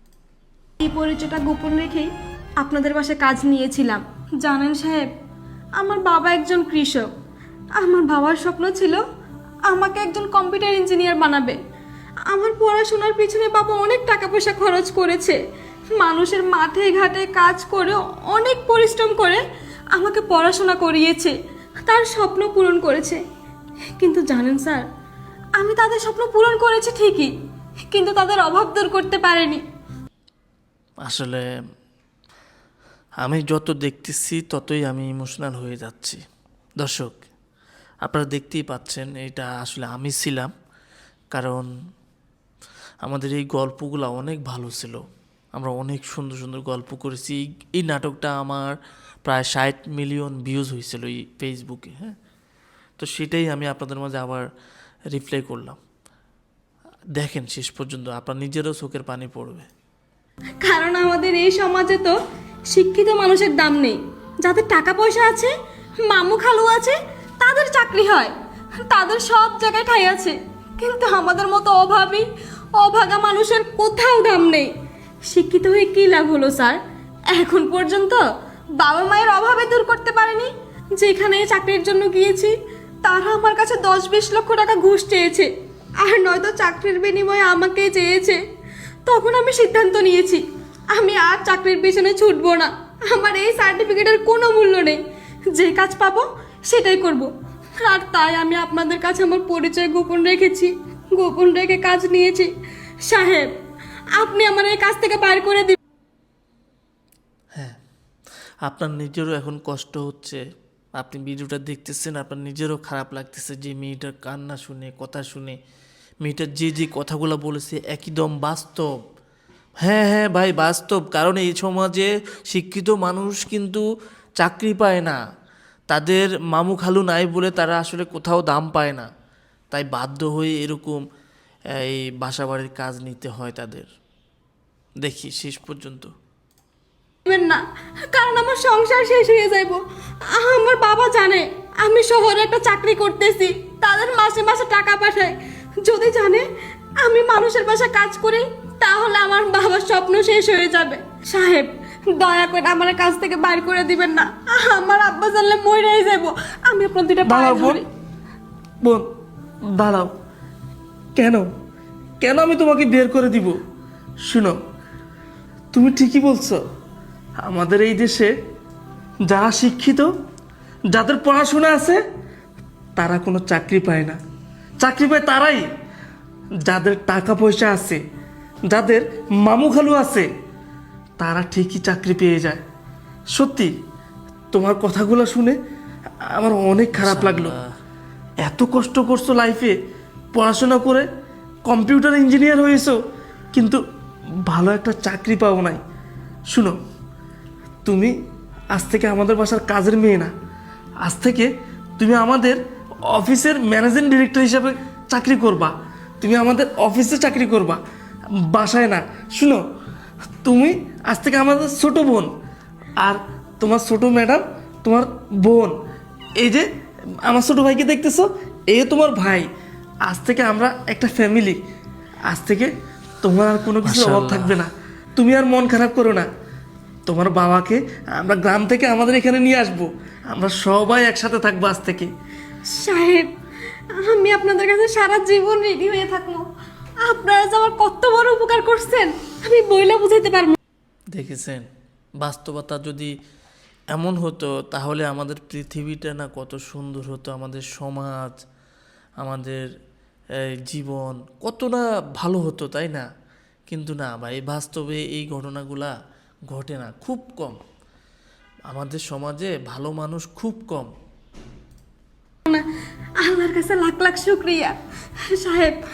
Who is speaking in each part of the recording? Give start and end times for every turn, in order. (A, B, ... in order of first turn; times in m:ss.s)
0:00.8-0:05.0 A
0:05.8-0:07.1 A
0:07.7-0:09.0 A
0:09.6-0:11.6 A
0:12.3-0:15.4 A
0:15.9-0:21.3 A
0:21.8-0:23.2 A
0:24.0-0:24.8 A
0:25.6-0:27.3 A
0:27.9-0:29.6 A
0:31.0-0:31.4 B
0:33.2-0:36.2 B
0:36.8-0:37.1 B
0:38.0-0:40.5 B
0:41.3-0:41.7 B
0:43.0-0:45.0 B
0:45.5-0:52.2 B
0:53.0-0:54.5 B
0:55.1-0:55.8 B
0:57.2-0:59.7 B
1:00.6-1:02.2 A
1:02.7-1:05.5 A
1:06.0-1:08.3 A
1:08.8-1:12.2 A
1:12.8-1:14.7 A
1:15.3-1:16.8 A
1:17.3-1:18.2 A
1:18.8-1:25.5 A
1:26.0-1:28.4 A
1:29.0-1:35.0 A
1:35.5-1:37.3 A
1:37.8-1:42.5 A
1:43.0-1:43.5 A
1:44.2-1:45.8 A
1:48.6-1:50.4 B
1:51.0-1:55.6 B
1:56.2-1:58.9 B
1:59.8-2:03.8 B
2:04.4-2:05.2 B
2:05.9-2:09.1 B
2:09.7-2:11.0 B
2:11.8-2:13.9 B
2:15.0-2:16.1 B
2:17.2-2:17.6 A
2:18.1-2:19.8 A
2:20.3-2:26.4 A
2:27.0-2:37.8 A
2:37.2-2:37.8 C
2:39.7-2:40.1 C
2:41.2-2:41.4 C
2:42.2-2:43.6 C
2:44.3-2:44.6 C
2:45.7-2:46.6 C
2:47.4-2:48.3 C
2:49.2-2:50.1 C
2:50.9-2:52.0 C
2:53.0-2:54.2 C
2:54.8-2:55.6 C
2:56.6-2:58.0 C
2:58.7-3:00.3 C
3:01.2-3:02.6 C
3:03.3-3:03.7 C
3:04.5-3:05.6 C
3:06.3-3:07.5 C
3:06.9-3:07.7 B
3:08.4-3:09.7 C
3:10.3-3:11.0 C
3:11.6-3:13.0 C
3:13.5-3:13.8 C
3:14.4-3:15.8 C
3:16.5-3:16.8 C
3:17.8-3:18.1 C
3:18.7-3:20.3 C
3:21.0-3:27.8 C
3:28.5-3:29.6 C
3:30.4-3:32.3 C
3:33.0-3:35.7 C
3:36.4-3:36.6 C
3:37.2-3:39.4 C
3:40.0-3:41.6 C
3:42.3-3:46.2 C
3:43.8-3:44.6 B
3:47.1-3:52.1 C
3:52.7-3:53.3 A
3:53.9-3:56.4 A
3:57.0-4:00.6 A
4:01.1-4:01.6 B
4:02.2-4:03.1 B
4:03.9-4:08.3 B
4:09.2-4:09.6 B
4:10.7-4:13.1 B
4:13.7-4:15.9 B
4:16.5-4:17.6 B
4:18.7-4:20.9 B
4:23.2-4:24.7 A
4:25.3-4:25.8 A